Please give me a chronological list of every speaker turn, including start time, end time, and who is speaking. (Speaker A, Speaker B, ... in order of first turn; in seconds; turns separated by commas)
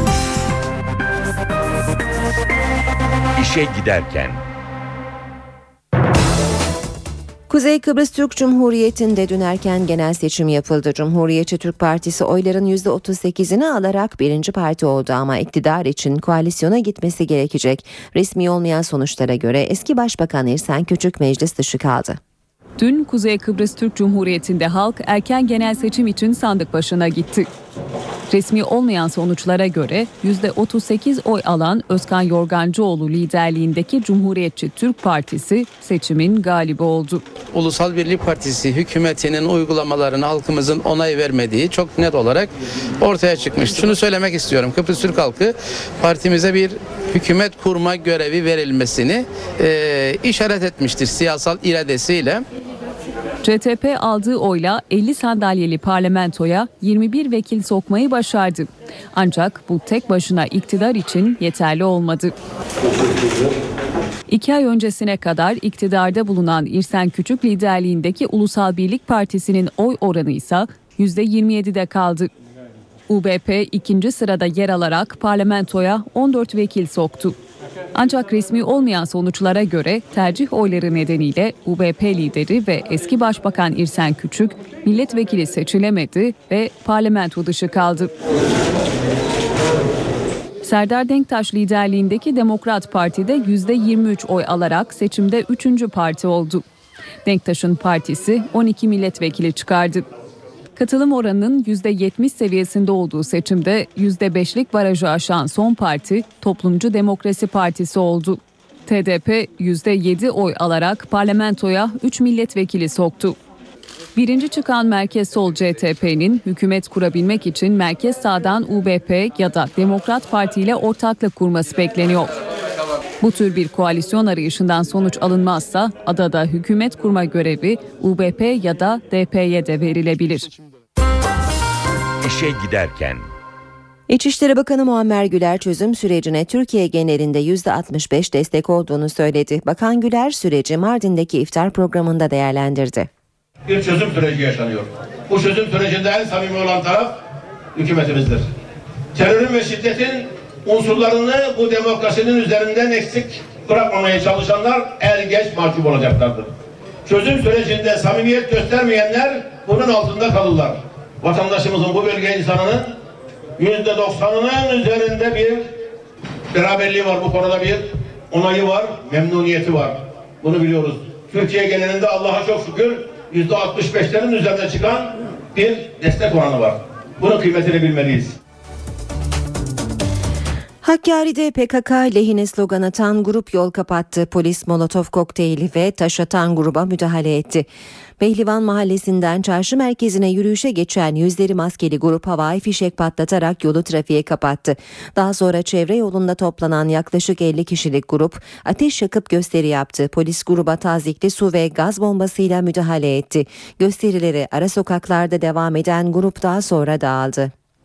Speaker A: 3.4-4.4, Speaker B: 7.5-22.2, Speaker C: 22.8-27.5, Speaker C: 28.3-37.2, Speaker D: 37.5-52.5, Speaker C: 53.4-62.3, Speaker C: 64.3-72.3, Speaker C: 73.1-77.4, Speaker C: 77.9-88.1, Speaker C: 90.6-96.6, Speaker C: 97.2-100.0, Speaker C: 100.8-113.4, Speaker C: 114.2-122.3, Speaker C: 123.2-130.5, Speaker A: 132.2-133.3, Speaker B: 134.1-143.1, Speaker E: 143.7-147.2, Speaker E: 147.8-148.5, Speaker E: 149.2-156.5, Speaker E: 157.1-162.9, Speaker E: 163.6-165.7, Speaker E: 166.5-178.4, Speaker B: 180.8-187.7, Speaker B: 188.2-207.5